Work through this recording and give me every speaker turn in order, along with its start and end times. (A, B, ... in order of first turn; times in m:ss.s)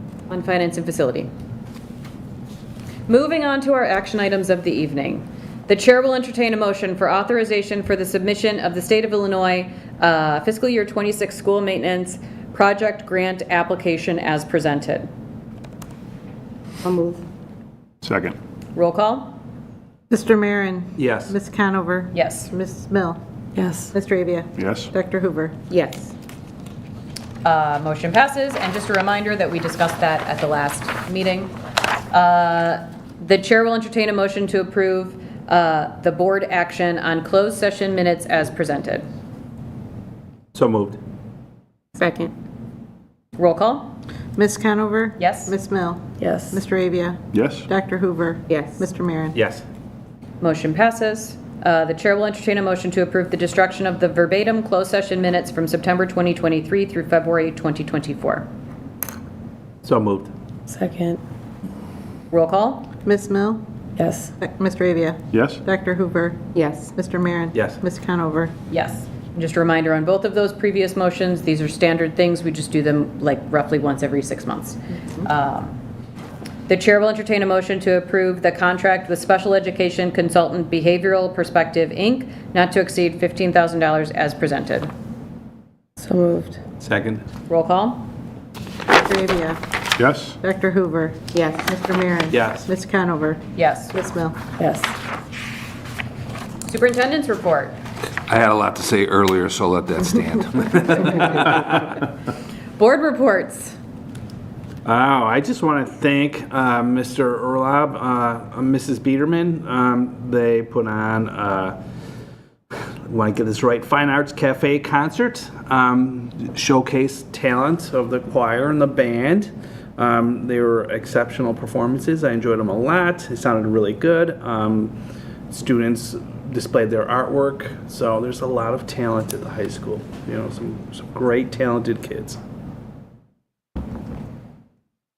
0:00.3-0:01.3 A
0:03.1-0:15.1 A
0:16.8-0:17.2 B
0:18.0-0:18.4 C
0:18.8-0:19.4 A
0:20.1-0:23.2 D
0:21.0-0:21.4 E
0:22.1-0:22.5 A
0:23.6-0:23.9 F
0:23.9-0:25.6 D
0:24.6-0:24.9 C
0:25.7-0:26.1 B
0:27.4-0:31.5 A
0:32.1-0:39.0 A
0:40.5-0:41.0 E
0:42.0-0:42.3 B
0:43.4-0:44.0 A
0:44.4-0:49.4 D
0:45.2-0:45.5 A
0:46.2-0:46.6 F
0:47.3-0:47.7 C
0:48.5-0:48.9 B
0:49.3-0:49.6 E
0:50.4-0:58.5 A
0:59.8-1:00.3 E
1:00.7-1:01.2 F
1:02.3-1:02.9 A
1:03.0-1:03.6 D
1:04.0-1:04.3 F
1:04.4-1:06.4 D
1:05.3-1:05.6 C
1:06.5-1:06.9 B
1:07.0-1:08.5 D
1:08.7-1:15.8 A
1:16.7-1:24.9 A
1:26.0-1:26.6 F
1:26.8-1:27.2 E
1:27.5-1:28.1 A
1:28.9-1:29.6 D
1:30.0-1:30.4 C
1:30.4-1:31.2 D
1:31.3-1:31.8 B
1:31.7-1:33.4 D
1:32.3-1:32.7 E
1:33.6-1:33.9 A
1:33.9-1:34.4 D
1:34.6-1:34.9 F
1:36.7-1:37.8 A
1:38.3-1:41.4 G
1:41.4-1:41.7 E
1:42.8-1:43.8 A
1:44.8-1:51.8 E
1:52.7-2:05.0 E
2:05.5-2:12.4 E